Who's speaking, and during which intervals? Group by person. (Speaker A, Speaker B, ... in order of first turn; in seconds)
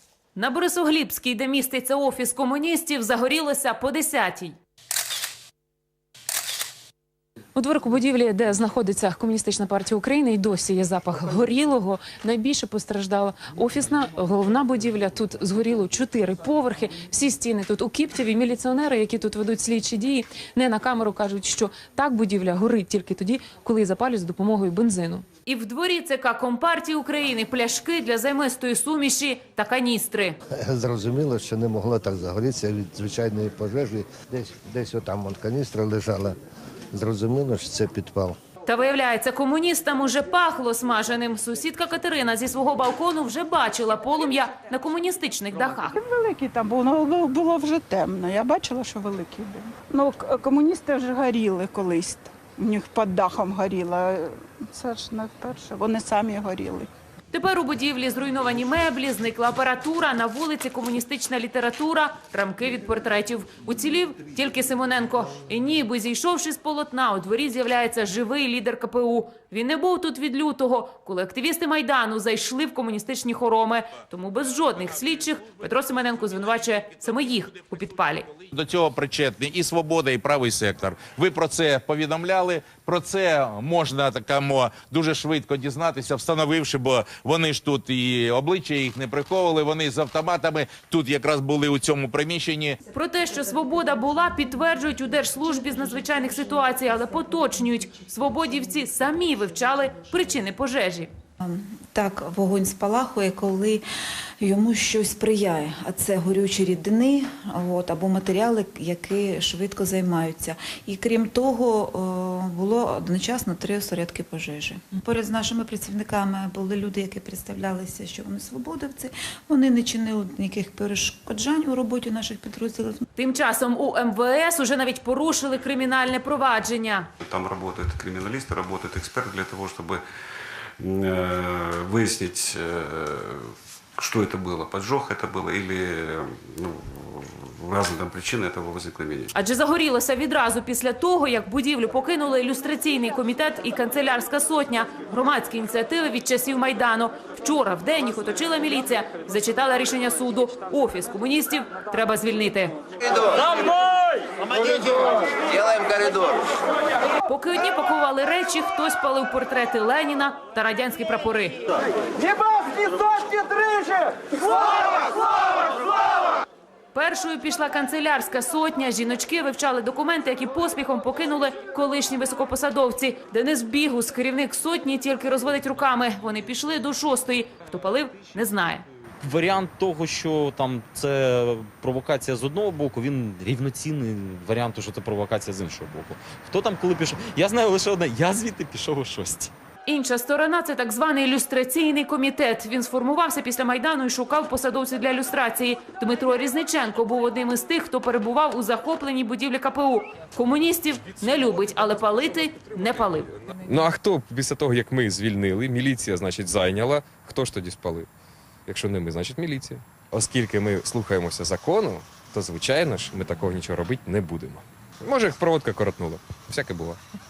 Speaker A: 0.3-4.6, 25.5-30.4, 38.6-46.0, 57.3-78.3, 92.9-101.1, 123.2-127.1, 139.3-152.8, 157.3-161.6, 166.9-178.8, 189.9-203.3
Speaker B: 7.5-25.3
Speaker C: 30.6-36.3, 36.9-38.4
Speaker D: 46.0-56.9
Speaker E: 78.5-92.8
Speaker F: 101.4-103.8, 104.4-123.0
Speaker G: 127.2-130.0, 130.8-139.3
Speaker H: 179.2-189.5
Speaker I: 203.6-208.1, 208.7-217.0